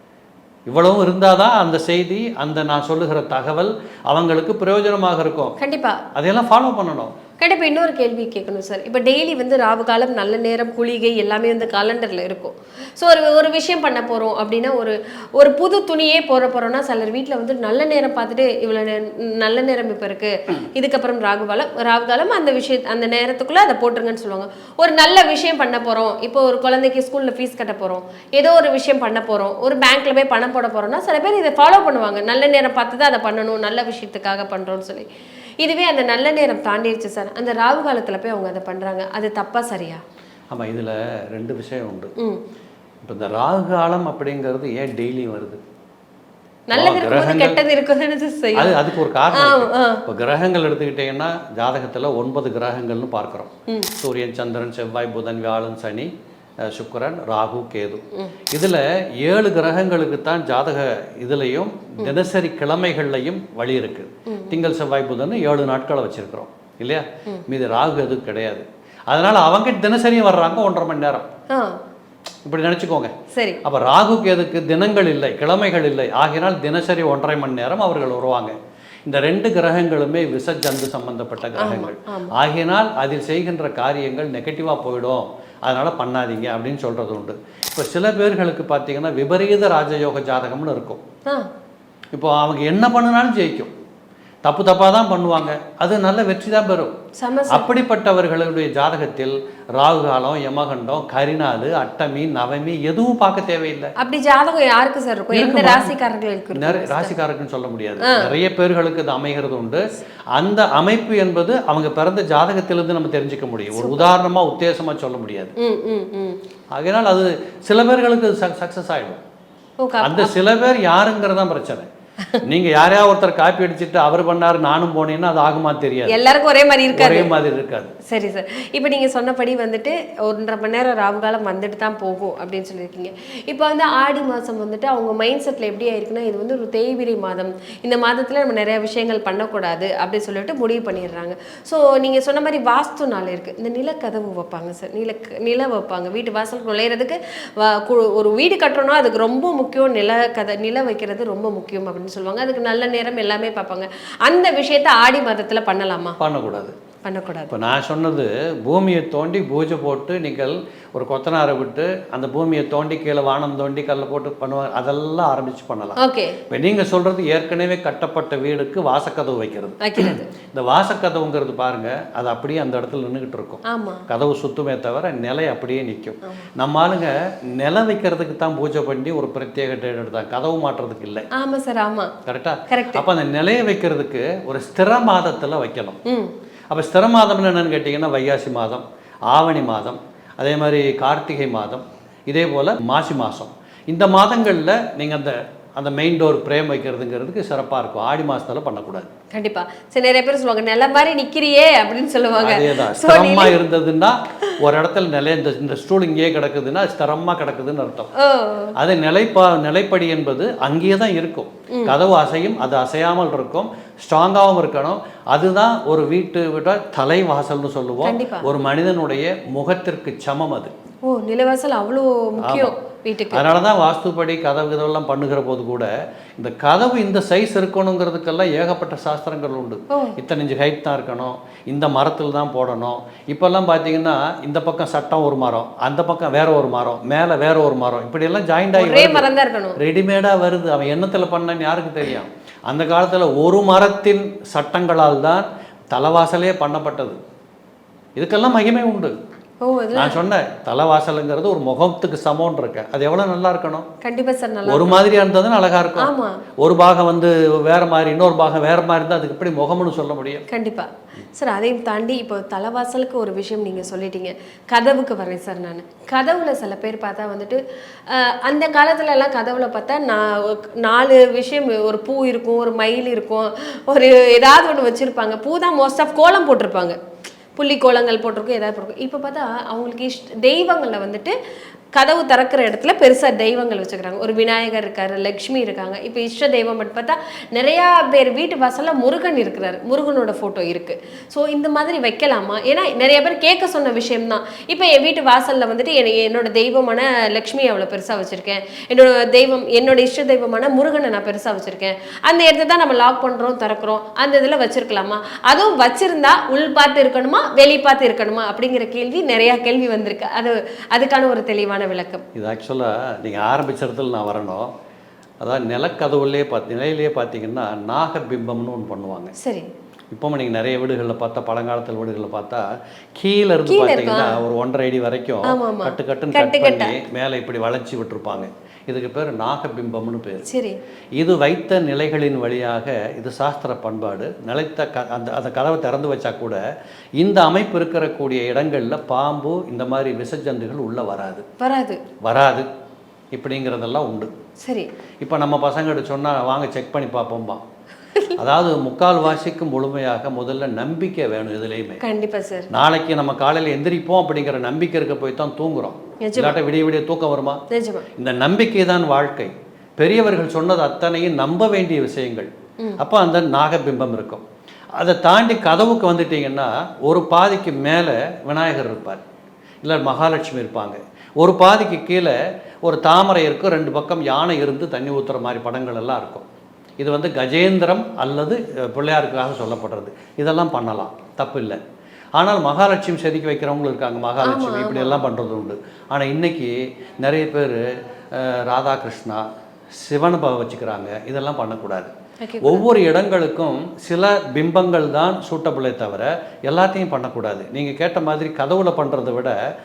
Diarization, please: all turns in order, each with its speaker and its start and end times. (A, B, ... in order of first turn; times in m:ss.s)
0:00.7-0:05.5 A
0:05.6-0:06.0 B
0:06.1-0:07.1 A
0:07.4-0:35.1 B
0:35.6-0:40.0 B
0:40.5-0:42.1 A
0:43.0-0:45.6 A
0:46.7-0:50.0 B
0:46.7-0:47.6 A
0:48.6-0:56.1 A
0:56.7-1:11.3 A
1:04.3-1:04.6 B
1:11.5-1:11.8 B
1:12.4-1:31.0 A
1:13.3-1:13.6 B
1:21.6-1:22.3 B
1:32.1-1:33.7 A
1:34.4-1:36.9 A
1:37.2-1:37.7 B
1:37.5-1:43.9 A
1:44.0-1:47.1 B
1:45.3-1:45.9 A
1:46.5-1:55.5 A
1:48.0-1:48.3 B
1:53.8-1:54.1 B
1:55.6-1:56.4 B
1:56.7-1:59.2 A
1:59.8-2:00.3 B
2:00.0-2:01.9 A
2:02.4-2:06.2 A
2:06.1-2:07.3 B
2:06.9-2:07.9 A
2:08.0-2:36.2 B
2:36.2-2:36.7 A
2:37.0-2:37.5 B
2:37.5-2:46.0 A
2:46.0-2:46.4 B
2:46.5-3:01.3 A
2:49.8-2:50.3 B
2:53.7-2:54.0 B
3:01.3-3:02.1 B
3:02.2-3:06.0 A
3:02.7-3:03.0 B
3:06.0-3:06.3 B
3:06.7-3:19.1 A
3:19.3-3:23.6 B
3:22.4-3:28.1 A
3:28.2-3:28.7 B
3:28.8-3:40.7 A
3:38.0-3:38.4 B
3:41.0-3:43.4 B
3:42.4-3:42.7 A
3:43.3-3:59.2 A
3:49.9-3:50.2 B
3:58.8-3:59.8 B
3:59.8-4:07.2 A
4:08.2-4:09.1 A
4:09.6-4:10.2 B
4:09.9-4:13.9 A
4:14.0-4:15.0 B
4:14.7-4:20.4 A
4:16.0-4:16.4 B
4:20.5-4:37.0 B
4:37.6-4:41.4 B
4:41.9-5:12.2 B
5:12.3-5:14.7 A
5:15.4-5:19.3 A
5:19.4-5:19.7 B
5:20.1-5:30.4 A
5:23.7-5:24.4 B
5:25.4-5:26.9 B
5:30.5-5:30.8 B
5:31.2-5:36.6 A
5:37.2-5:41.4 A
5:41.6-5:42.0 B
5:42.2-5:42.7 A
5:43.3-5:44.3 A
5:44.6-5:44.9 B
5:45.2-5:47.6 A
5:48.4-5:52.0 A
5:52.0-5:52.7 B
5:52.7-5:57.6 A
5:56.2-5:56.6 B
5:57.7-5:58.1 B
5:58.2-6:04.4 A
6:05.0-6:09.2 A
6:09.8-6:16.4 A
6:17.0-6:21.8 A
6:22.4-6:39.6 A
6:24.4-6:25.2 B
6:32.4-6:32.8 B